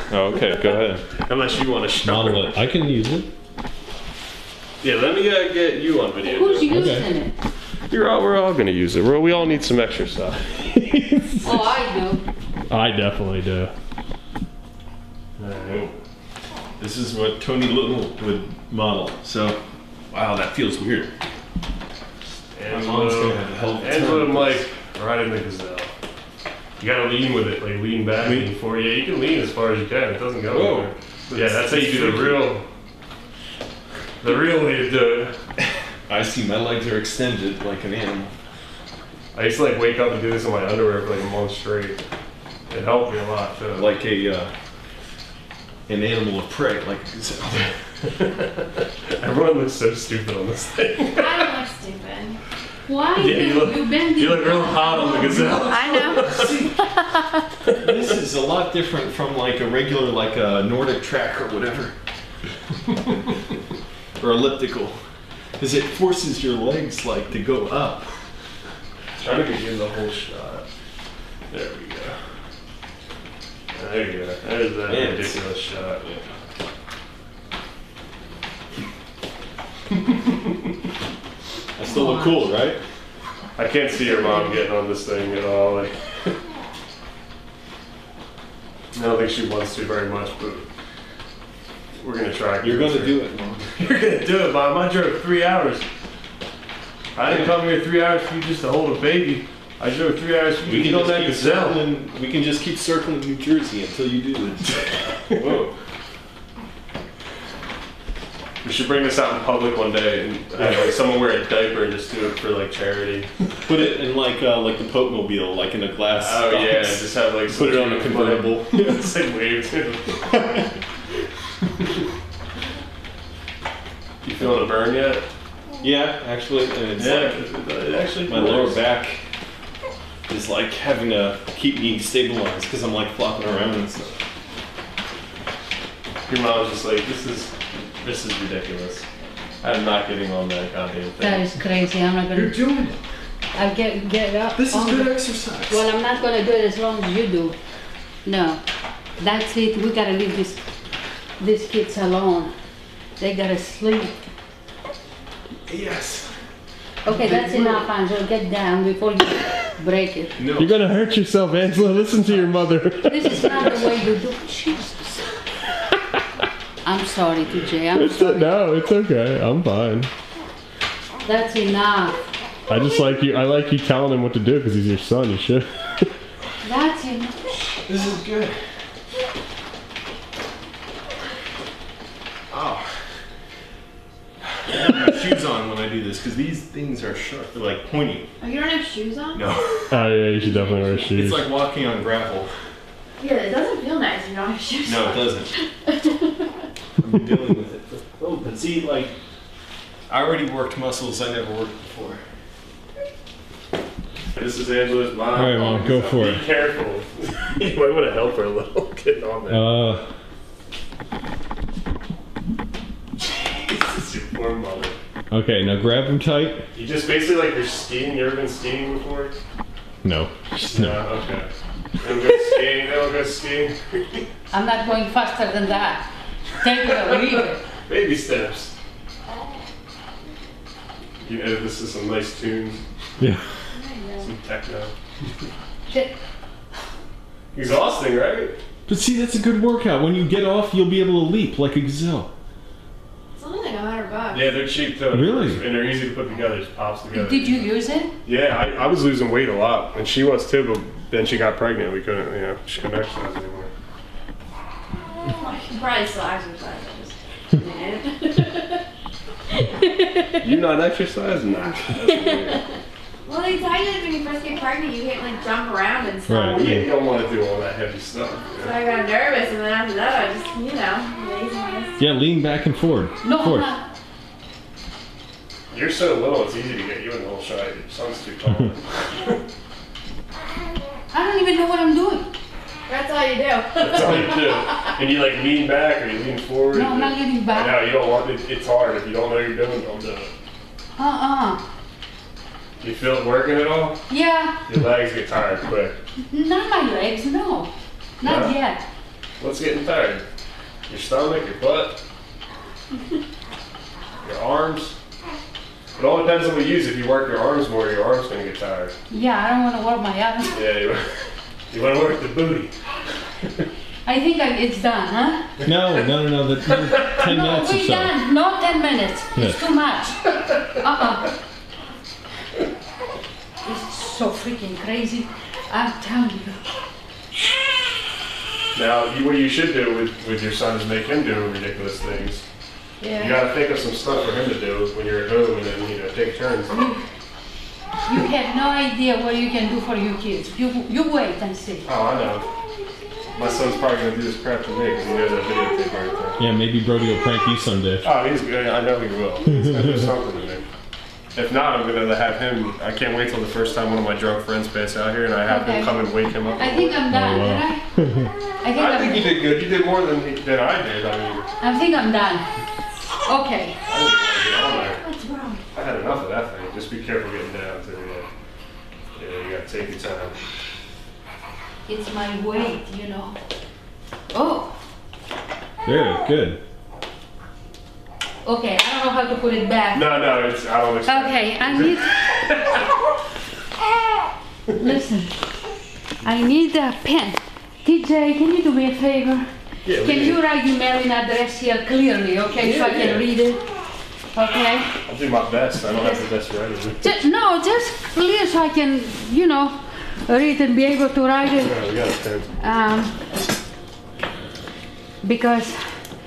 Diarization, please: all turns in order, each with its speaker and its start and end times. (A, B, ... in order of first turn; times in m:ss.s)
0:00.1-0:01.1 A
0:00.2-0:02.6 B
0:02.0-0:03.3 A
0:04.8-0:06.8 B
0:06.2-0:07.3 C
0:06.7-0:07.1 A
0:07.9-0:10.8 B
0:10.8-0:11.6 A
0:11.4-0:12.2 C
0:12.7-0:13.7 B
0:15.4-0:15.9 B
0:15.7-0:15.9 A
0:16.8-0:19.6 A
0:20.1-0:21.1 A
0:22.5-0:25.9 B
0:22.7-0:24.7 A
0:26.8-0:32.6 B
0:28.2-0:28.5 A
0:30.5-0:32.5 A
0:34.2-0:35.4 B
0:36.1-0:38.3 A
0:39.3-0:42.0 B
0:42.7-0:43.9 B
0:43.8-0:44.5 A
0:45.9-0:47.8 A
0:48.2-0:48.5 B
0:49.2-0:51.5 B
0:51.2-0:52.4 D
0:52.9-0:55.7 C
0:53.2-0:56.7 B
0:55.6-0:56.5 D
0:56.2-0:56.8 A
0:57.8-1:01.9 A
1:04.2-1:05.0 A
1:05.6-1:08.2 A
1:09.2-1:10.7 B
1:11.5-1:12.2 B
1:13.7-1:16.3 B
1:14.9-1:15.4 A
1:21.8-1:22.8 A
1:21.8-1:22.5 C
1:23.6-1:26.4 B
1:28.9-1:30.7 B
1:32.0-1:33.2 B
1:32.6-1:33.7 A
1:33.8-1:35.8 B
1:37.2-1:41.8 B
1:40.6-1:45.7 A
1:45.3-1:45.7 B
1:48.6-1:53.3 B
1:53.7-1:58.9 A
1:56.2-2:00.6 B
2:04.2-2:05.2 B
2:05.8-2:07.5 A
2:07.0-2:08.8 B
2:08.3-2:09.2 A
2:10.3-2:14.2 A
2:16.3-2:19.0 B
2:19.6-2:21.5 B
2:21.2-2:22.7 C
2:22.3-2:23.0 A
2:23.5-2:27.6 C
2:24.6-2:25.9 A
2:28.2-2:28.6 C
2:29.2-2:30.6 C
2:31.4-2:32.5 C
2:33.2-2:34.3 C
2:35.7-2:36.3 A
2:37.0-2:40.4 C
2:37.1-2:37.8 A
2:40.4-2:40.8 A
2:40.6-2:43.7 B
2:43.1-2:45.2 C
2:46.8-2:48.6 C
2:47.9-2:50.1 B
2:51.2-2:52.2 C
2:52.7-2:56.1 B
2:56.6-2:57.4 C
2:57.9-2:58.6 A
3:02.5-3:02.9 A
3:04.7-3:08.3 A
3:08.4-3:09.4 D
3:09.3-3:09.9 A
3:09.9-3:11.4 B
3:11.1-3:12.5 A
3:13.2-3:16.2 D
3:14.8-3:15.5 A
3:17.0-3:19.2 A
3:20.1-3:22.2 A
3:24.3-3:29.7 B
3:25.3-3:26.4 A
3:29.5-3:30.0 A
3:33.6-3:35.0 B
3:35.3-3:36.6 A
3:36.7-3:39.4 B
3:40.0-3:41.0 A
3:40.5-3:41.5 B
3:42.0-3:44.2 B
3:44.5-3:46.1 C
3:46.6-3:47.6 C
3:46.9-3:48.7 B
3:51.2-3:52.8 B
3:53.7-3:54.3 D
3:54.2-3:54.9 B
3:55.9-3:56.2 C
3:57.5-3:58.6 B
3:58.9-4:02.3 A
4:03.4-4:04.5 D
4:04.3-4:07.7 B
4:05.1-4:05.6 A
4:07.1-4:08.1 C
4:08.2-4:13.7 B
4:15.2-4:18.8 D
4:19.6-4:20.2 D
4:20.4-4:22.6 B
4:23.2-4:26.8 D
4:26.3-4:26.8 A
4:26.5-4:28.8 B
4:28.6-4:32.0 D
4:32.0-4:33.7 A
4:33.2-4:33.8 C
4:35.7-4:39.4 B
4:41.1-4:42.3 C
4:42.9-4:44.3 D
4:43.8-4:50.3 B
4:46.7-4:47.8 C
4:51.0-4:51.6 C
4:52.8-4:54.0 B
4:54.1-4:54.6 C
4:54.7-4:56.0 B
4:56.3-4:58.8 C
4:58.2-4:58.6 B
4:59.4-5:00.2 B
5:00.9-5:02.0 B
5:04.2-5:05.0 B
5:06.0-5:08.9 B
5:09.1-5:10.6 C
5:10.5-5:11.1 B
5:11.7-5:12.7 B
5:14.0-5:15.5 C
5:15.6-5:18.1 A
5:15.7-5:16.1 B
5:16.7-5:17.2 B
5:17.2-5:21.3 C
5:19.4-5:19.6 A
5:23.6-5:26.8 C
5:28.8-5:32.4 B
5:33.0-5:33.3 D
5:33.2-5:36.9 B
5:36.7-5:37.0 C
5:38.0-5:41.8 C
5:41.8-5:42.5 B
5:43.3-5:46.4 B
5:46.4-5:48.1 A
5:48.0-5:50.6 B
5:49.5-5:49.8 A
5:51.4-5:57.6 B
5:55.5-5:55.9 C
5:56.6-5:57.9 C
5:57.1-5:57.6 A
5:58.6-5:59.4 C
5:58.7-6:01.5 B
6:01.6-6:02.5 C
6:03.2-6:03.8 C
6:03.9-6:05.0 B
6:04.9-6:05.6 C
6:05.7-6:08.3 B
6:09.2-6:10.4 B
6:11.9-6:13.4 C
6:14.3-6:14.8 C
6:15.8-6:16.6 A
6:18.4-6:20.1 C
6:19.9-6:22.8 B
6:21.1-6:22.1 C
6:24.7-6:25.4 C
6:26.2-6:33.6 C
6:29.8-6:30.4 B
6:32.6-6:33.3 B
6:34.3-6:34.9 C
6:35.1-6:37.0 B
6:35.9-6:36.2 C
6:37.0-6:41.8 C
6:41.6-6:42.5 B
6:42.6-6:43.3 C
6:45.2-6:45.8 C